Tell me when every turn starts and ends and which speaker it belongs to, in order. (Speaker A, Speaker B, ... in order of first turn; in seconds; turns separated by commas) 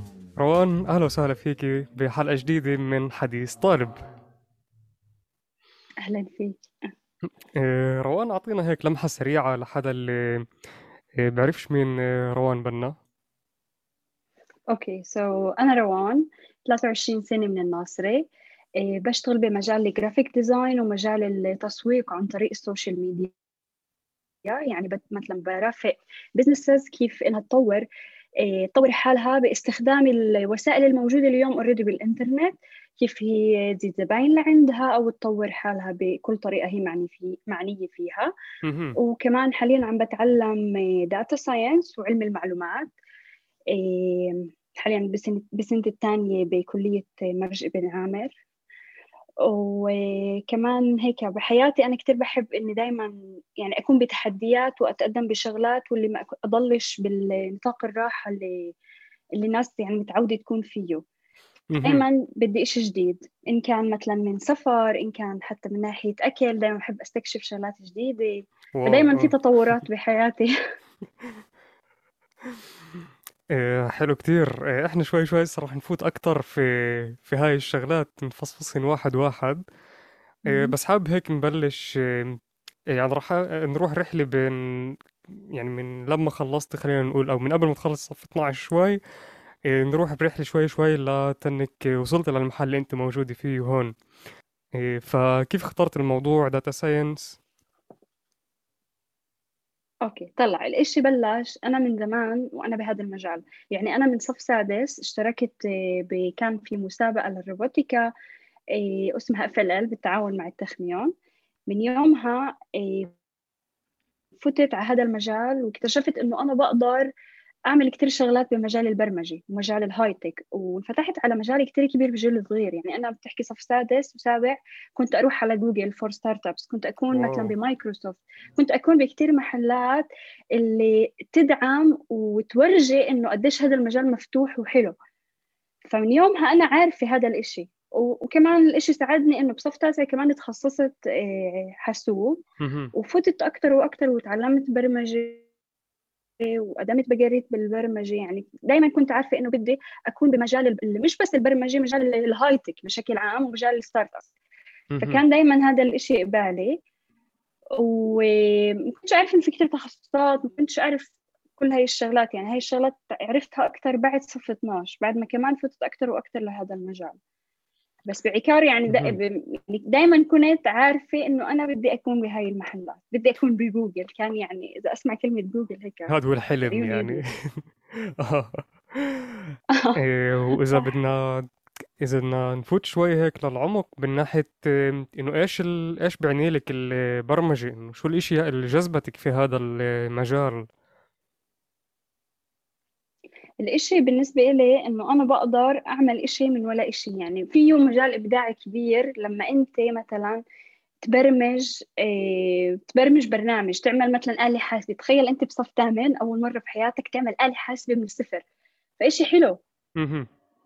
Speaker A: 0.4-4.0, Speaker B: 6.0-6.9, Speaker A: 7.5-10.4, Speaker A: 11.2-12.9, Speaker B: 14.7-18.3, Speaker B: 18.8-23.3, Speaker B: 24.4-27.9, Speaker B: 28.4-38.3, Speaker A: 38.6-39.0, Speaker B: 39.0-42.9, Speaker B: 43.7-48.3, Speaker B: 49.5-58.7, Speaker B: 59.4-61.0, Speaker A: 61.7-62.0, Speaker B: 61.8-70.5, Speaker A: 68.8-69.3, Speaker A: 73.5-79.6, Speaker B: 80.5-80.7, Speaker A: 80.5-82.4, Speaker A: 82.9-84.9, Speaker A: 85.5-89.0, Speaker A: 89.7-93.9, Speaker A: 94.7-97.4, Speaker B: 100.0-108.1, Speaker B: 108.7-111.1, Speaker B: 111.7-113.1, Speaker B: 114.4-117.1, Speaker B: 117.7-134.9, Speaker A: 127.1-127.5, Speaker B: 135.8-142.4, Speaker A: 142.6-142.9, Speaker B: 142.9-145.4, Speaker B: 146.4-154.3, Speaker A: 154.9-155.2, Speaker B: 155.0-156.8, Speaker B: 157.8-167.2, Speaker B: 168.1-177.2, Speaker A: 168.9-169.2, Speaker A: 176.1-177.6, Speaker A: 178.2-181.4, Speaker B: 179.7-180.0, Speaker A: 182.0-190.7, Speaker B: 193.6-200.4, Speaker B: 201.0-208.4, Speaker B: 209.0-209.6, Speaker A: 210.0-210.3